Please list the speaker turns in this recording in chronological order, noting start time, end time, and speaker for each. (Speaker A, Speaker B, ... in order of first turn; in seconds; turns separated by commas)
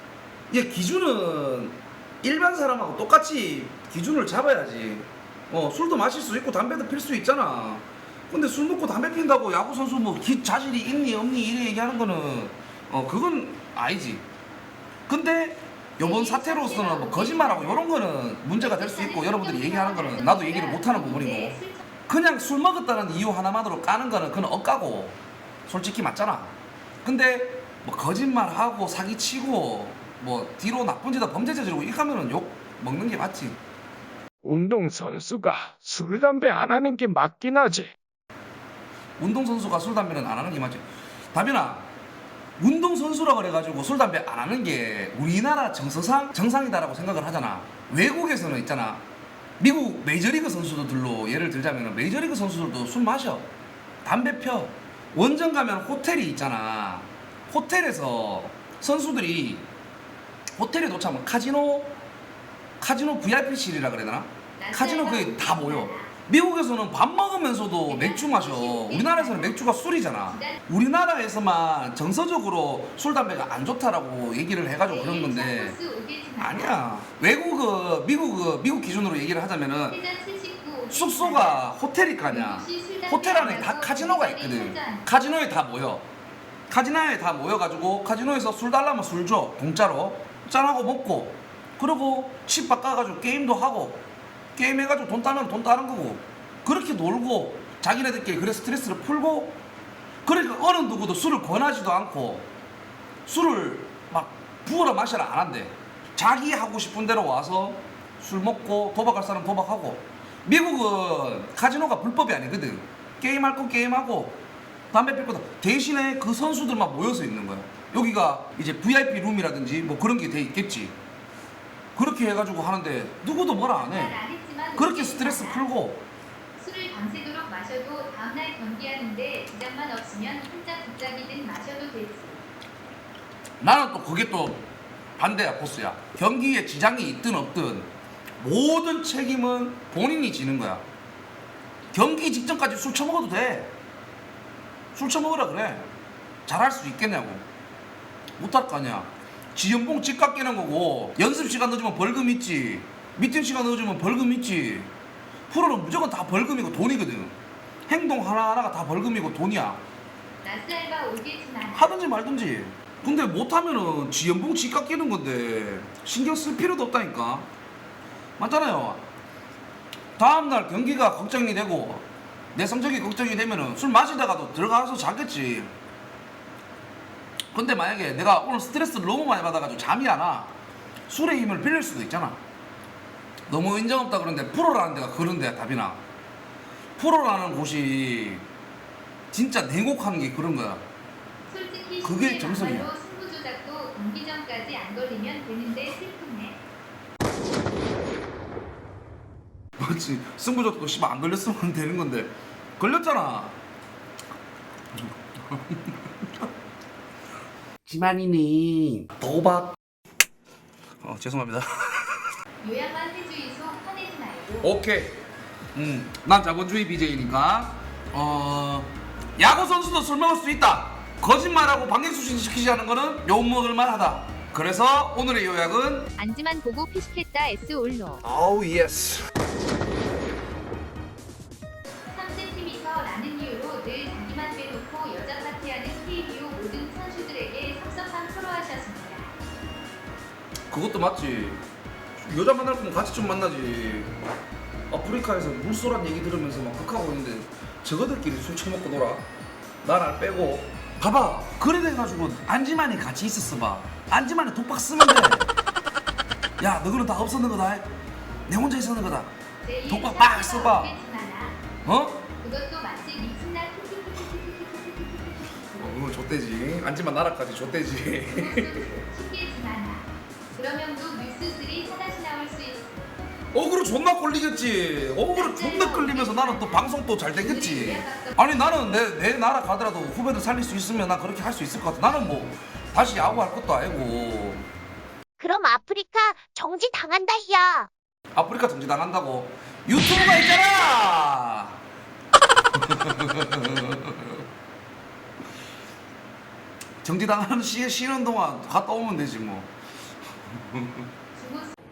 Speaker A: 0.5-14.2, Speaker A: 15.1-33.6, Speaker B: 16.0-17.9, Speaker B: 18.6-21.9, Speaker C: 34.4-37.9, Speaker A: 39.2-41.9, Speaker A: 42.6-49.0, Speaker A: 49.6-53.5, Speaker A: 54.0-59.7, Speaker A: 60.6-62.0, Speaker A: 62.8-75.8, Speaker B: 64.6-66.1, Speaker B: 67.9-69.7, Speaker B: 70.2-70.6, Speaker B: 74.9-76.8, Speaker A: 76.4-80.0, Speaker B: 79.9-81.7, Speaker A: 80.9-86.1, Speaker B: 82.3-85.1, Speaker A: 86.7-94.0, Speaker A: 94.6-99.6, Speaker A: 100.2-102.5, Speaker A: 103.2-114.4, Speaker A: 114.9-121.0, Speaker A: 121.9-124.2, Speaker B: 123.7-125.6, Speaker A: 124.8-126.0, Speaker B: 126.6-132.4, Speaker A: 133.6-134.7, Speaker A: 135.2-140.9, Speaker A: 141.9-143.7, Speaker A: 144.9-145.9, Speaker A: 146.4-147.4, Speaker A: 148.4-154.9, Speaker A: 155.5-157.3, Speaker A: 157.9-159.8, Speaker B: 160.4-162.0, Speaker A: 161.7-167.5, Speaker A: 168.4-169.1, Speaker A: 170.2-175.7, Speaker A: 177.5-180.5, Speaker A: 181.1-182.4, Speaker A: 183.5-186.0, Speaker A: 187.0-188.4, Speaker A: 189.3-190.9, Speaker B: 191.5-196.6, Speaker A: 192.0-192.9, Speaker A: 199.8-203.6, Speaker A: 204.9-206.0, Speaker A: 207.9-209.8, Speaker A: 211.0-212.2, Speaker B: 212.6-214.7, Speaker A: 214.6-215.2, Speaker A: 215.8-226.1, Speaker B: 226.2-228.2, Speaker A: 228.2-229.3, Speaker B: 232.1-239.3, Speaker A: 240.7-241.6, Speaker A: 242.2-244.1, Speaker A: 244.9-249.2, Speaker A: 249.8-255.5, Speaker A: 256.6-257.9, Speaker A: 258.5-259.3, Speaker B: 259.6-261.6, Speaker A: 259.9-260.9, Speaker A: 261.8-262.2, Speaker B: 262.4-266.1, Speaker A: 265.8-269.0, Speaker B: 268.3-273.1, Speaker A: 273.5-284.7, Speaker B: 275.3-278.4, Speaker D: 285.4-287.9, Speaker A: 288.3-291.8, Speaker A: 292.8-294.4, Speaker A: 297.0-299.7, Speaker A: 300.5-301.1, Speaker B: 301.3-301.8